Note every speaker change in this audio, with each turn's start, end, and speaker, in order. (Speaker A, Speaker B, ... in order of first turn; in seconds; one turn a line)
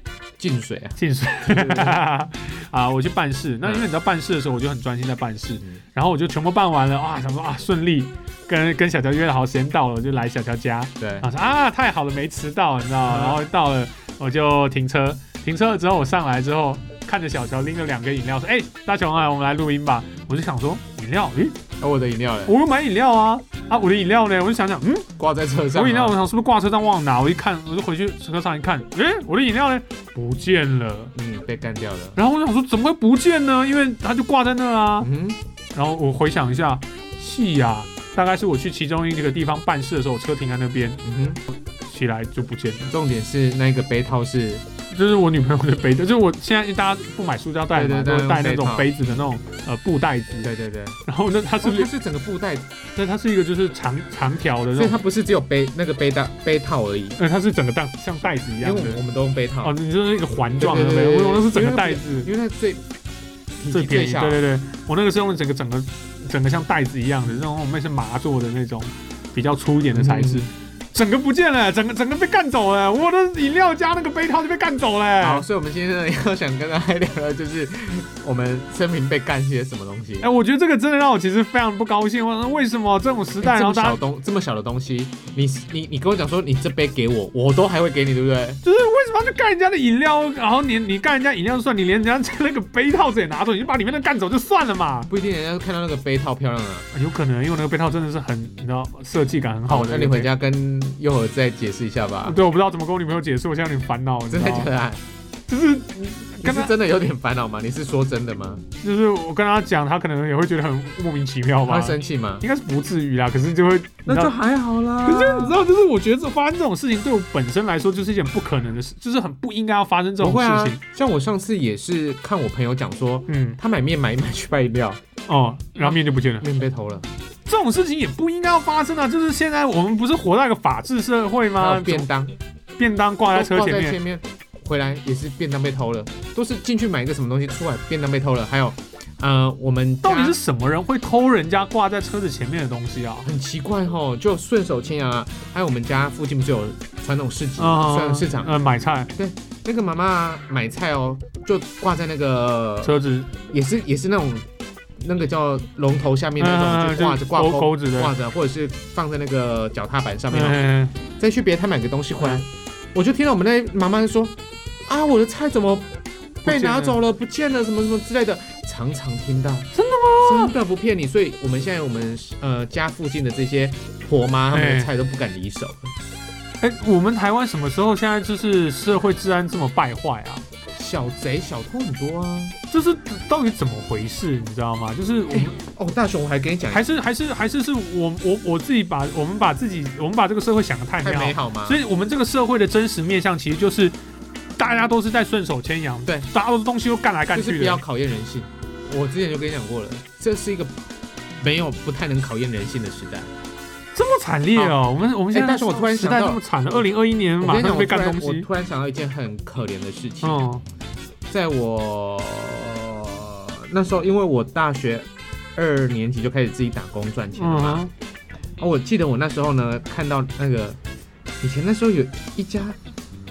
Speaker A: 0.4-2.0
Speaker B: 1.0-21.6
Speaker A: 3.6-3.9
Speaker A: 11.0-11.3
Speaker A: 13.0-13.4
Speaker A: 21.8-22.6
Speaker B: 22.5-25.1
Speaker A: 25.2-26.2
Speaker B: 25.8-31.1
Speaker A: 31.1-32.2
Speaker B: 32.2-35.1
Speaker A: 35.0-35.4
Speaker B: 35.7-41.0
Speaker A: 41.0-41.4
Speaker B: 41.8-42.9
Speaker A: 42.9-44.6
Speaker B: 44.9-50.5
Speaker A: 47.7-48.9
Speaker A: 50.4-51.0
Speaker B: 51.1-51.9
Speaker A: 51.6-52.7
Speaker B: 53.0-55.0
Speaker A: 54.8-57.2
Speaker B: 57.2-59.0
Speaker A: 58.6-59.8
Speaker B: 59.6-62.3
Speaker A: 60.6-62.8
Speaker A: 63.6-64.4
Speaker B: 63.7-75.5
Speaker A: 69.9-70.5
Speaker A: 75.2-80.3
Speaker B: 80.2-84.0
Speaker A: 83.4-88.6
Speaker B: 88.6-95.1
Speaker A: 95.1-96.9
Speaker B: 96.9-100.3
Speaker A: 99.7-102.4
Speaker B: 102.3-104.7
Speaker A: 104.3-105.0
Speaker B: 105.5-106.7
Speaker A: 106.4-108.6
Speaker B: 108.8-114.3
Speaker A: 111.6-112.5
Speaker A: 114.1-115.6
Speaker B: 115.0-120.8
Speaker A: 120.2-125.0
Speaker B: 123.3-123.6
Speaker B: 125.3-126.4
Speaker A: 125.8-127.1
Speaker B: 127.5-132.1
Speaker A: 131.5-132.3
Speaker B: 132.8-134.0
Speaker A: 133.3-140.4
Speaker B: 140.0-143.3
Speaker A: 143.2-148.5
Speaker B: 147.6-149.1
Speaker A: 149.2-152.9
Speaker B: 152.8-153.3
Speaker A: 153.5-154.4
Speaker A: 155.0-164.3
Speaker B: 156.4-158.1
Speaker B: 160.3-160.9
Speaker A: 164.9-165.9
Speaker B: 166.4-167.0
Speaker A: 166.4-175.9
Speaker B: 169.7-170.6
Speaker B: 174.5-174.9
Speaker B: 176.6-180.4
Speaker A: 180.7-182.6
Speaker B: 182.7-185.6
Speaker A: 185.3-186.8
Speaker B: 186.7-193.9
Speaker A: 191.0-191.8
Speaker B: 194.6-197.8
Speaker A: 197.3-200.7
Speaker A: 201.4-203.3
Speaker B: 203.9-208.5
Speaker A: 205.3-206.8
Speaker A: 207.4-210.4
Speaker B: 210.2-210.6
Speaker A: 211.3-217.9
Speaker B: 217.4-217.9
Speaker A: 218.6-220.8
Speaker A: 221.4-222.8